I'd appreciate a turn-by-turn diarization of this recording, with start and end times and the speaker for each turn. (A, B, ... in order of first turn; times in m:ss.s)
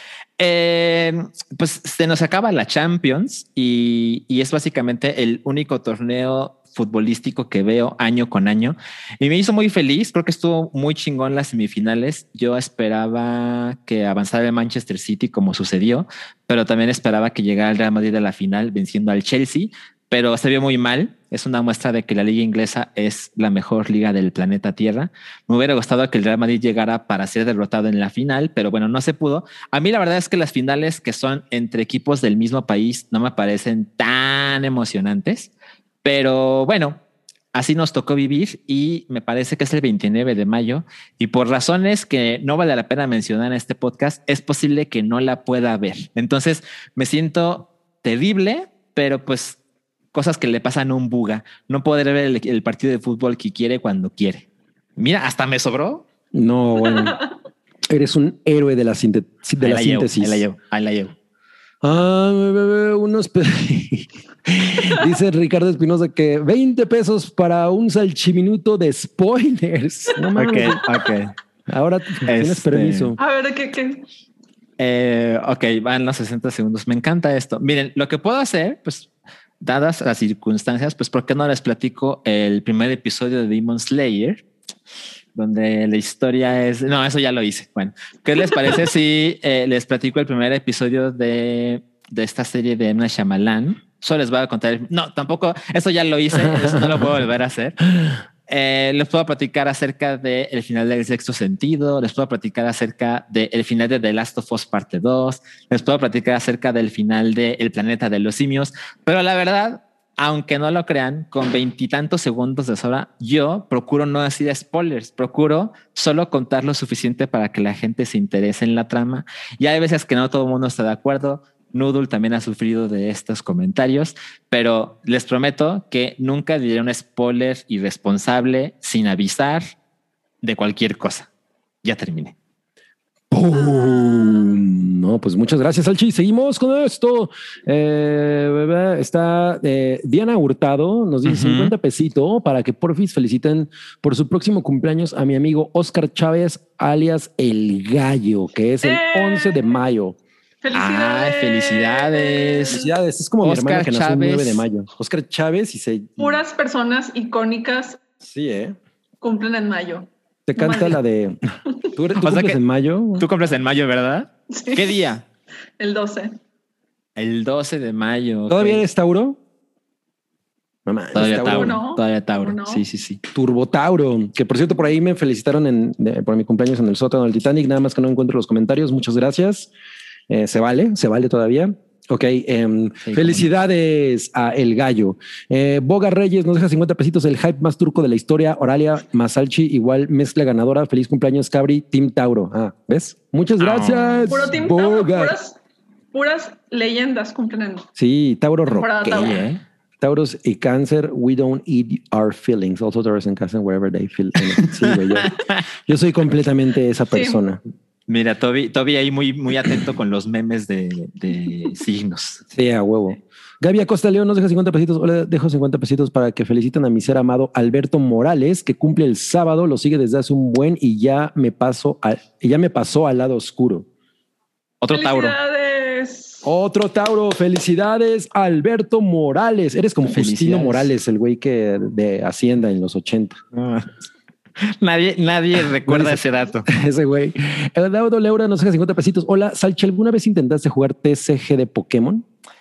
0:00.4-0:35.5 A
0:36.0-0:37.0 A
0:37.5-0:49.6 A
0:50.1-0:56.0 A
0:56.3-0:57.2 B
0:56.9-0:57.3 C
0:57.9-1:00.4 B
0:59.6-1:01.1 A
1:01.8-1:10.8 B
1:10.4-1:11.3 A
1:11.7-1:13.2 B
1:12.2-1:13.2 A
1:13.2-1:14.0 C
1:14.8-1:19.1 A
1:19.6-1:24.4 A
1:25.4-1:37.8 A
1:36.3-1:37.1 B
1:37.8-1:38.2 B
1:38.5-2:09.6 A
2:10.4-2:11.3 A
2:11.8-2:12.3 A
2:13.3-2:30.2 B
2:13.5-2:14.6 C
2:21.2-2:21.7 A
2:28.8-2:29.7 C
2:30.6-2:32.9 C
2:30.7-2:32.8 A
2:32.7-2:36.4 B
2:33.4-2:34.6 A
2:36.2-2:38.0 C
2:38.2-2:38.8 B
2:39.2-2:41.0 C
2:40.5-2:41.4 B
2:41.9-2:43.2 B
2:42.2-2:42.6 A
2:43.2-2:45.2 A
2:44.5-2:45.0 C
2:45.8-2:46.4 C
2:47.2-2:48.8 A
2:48.5-2:49.4 B
2:50.8-2:51.8 B
2:51.1-2:53.2 A
2:51.3-2:52.8 C
2:53.3-2:59.7 B
3:00.3-3:15.3 B
3:03.0-3:03.5 A
3:13.6-3:14.5 A
3:14.3-3:15.6 C
3:16.1-3:17.9 C
3:18.0-3:19.3 B
3:18.6-3:19.4 C
3:19.1-3:19.6 A
3:20.0-3:25.3 B
3:24.6-3:25.6 A
3:25.8-3:27.6 B
3:27.1-3:27.4 C
3:28.1-3:32.4 A
3:32.5-3:43.9 B
3:44.8-3:45.3 A
3:44.9-3:46.5 C
3:46.4-3:53.4 B
3:50.0-3:50.9 A
3:53.5-3:53.9 A
3:54.6-3:56.7 A
3:55.8-4:02.2 B